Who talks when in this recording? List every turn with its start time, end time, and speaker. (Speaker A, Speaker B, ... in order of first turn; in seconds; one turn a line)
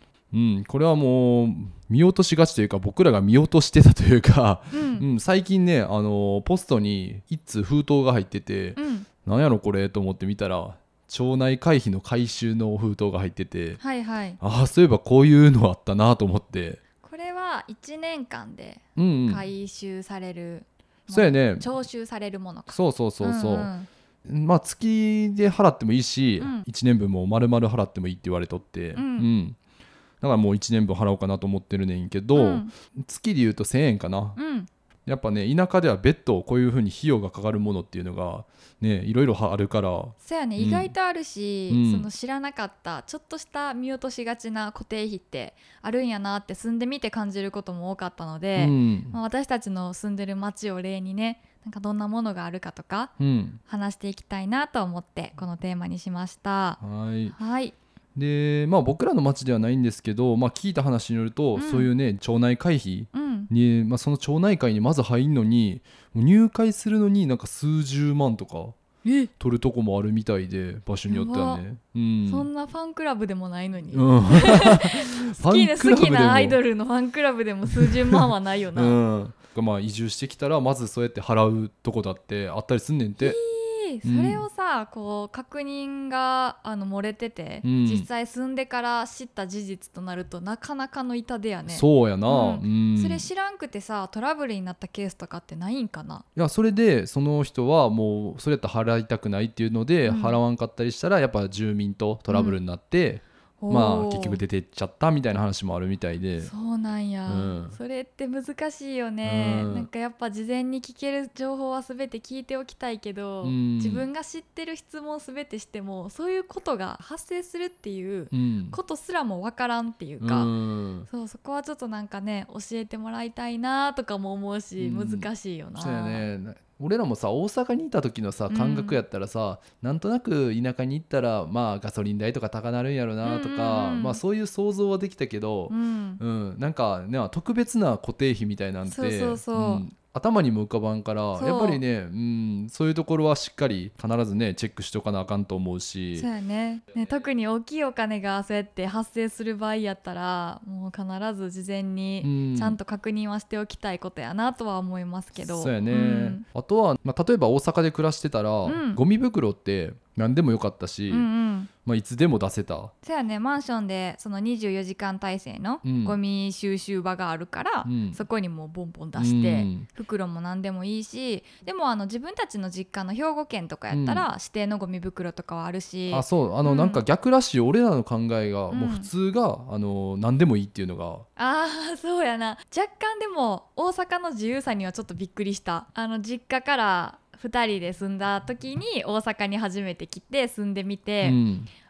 Speaker A: 0.3-13.8
Speaker B: 4.7-5.0
Speaker B: 8.8-9.1
Speaker B: 13.8-14.4
Speaker A: 14.4-16.8
Speaker B: 17.0-23.9
Speaker A: 19.0-19.5
Speaker A: 21.1-21.7
Speaker A: 22.7-23.7
Speaker A: 24.2-29.6
Speaker B: 26.4-26.7
Speaker B: 28.9-29.3
Speaker A: 30.2-34.4
Speaker B: 32.3-32.7
Speaker B: 34.4-34.7
Speaker A: 35.0-40.9
Speaker B: 40.2-53.1
Speaker A: 41.7-42.1
Speaker A: 48.5-49.2
Speaker A: 53.2-53.6
Speaker B: 53.7-56.8
Speaker A: 56.8-57.4
Speaker B: 57.3-57.7
Speaker A: 58.1-68.8
Speaker B: 61.5-61.9
Speaker B: 63.1-63.5
Speaker B: 69.0-69.3
Speaker A: 69.4-72.5
Speaker B: 71.1-71.6
Speaker B: 72.2-79.0
Speaker A: 73.9-76.6
Speaker A: 77.8-78.2
Speaker A: 78.7-83.4
Speaker B: 83.2-96.2
Speaker A: 84.0-84.5
Speaker A: 87.6-88.1
Speaker A: 91.7-93.2
Speaker A: 96.3-106.5
Speaker B: 100.0-100.4
Speaker B: 102.3-102.6
Speaker B: 103.6-104.4
Speaker B: 106.4-120.5
Speaker A: 107.3-107.8
Speaker A: 109.2-109.9
Speaker A: 113.4-114.1
Speaker A: 118.3-118.8
Speaker A: 120.2-121.1
Speaker B: 121.1-126.3
Speaker A: 124.8-146.3
Speaker B: 128.5-129.0
Speaker B: 133.2-134.2
Speaker B: 135.7-136.2
Speaker B: 138.9-139.8
Speaker B: 141.4-141.8
Speaker B: 146.2-156.4
Speaker A: 152.2-152.8
Speaker A: 155.4-161.3
Speaker B: 158.7-159.0
Speaker B: 161.1-161.7
Speaker A: 161.8-162.9
Speaker B: 163.0-177.0
Speaker A: 165.8-166.2
Speaker A: 167.8-168.2
Speaker A: 169.2-169.9
Speaker A: 173.9-174.3
Speaker A: 176.1-181.2
Speaker B: 178.7-179.1
Speaker B: 181.4-191.4
Speaker A: 191.2-191.7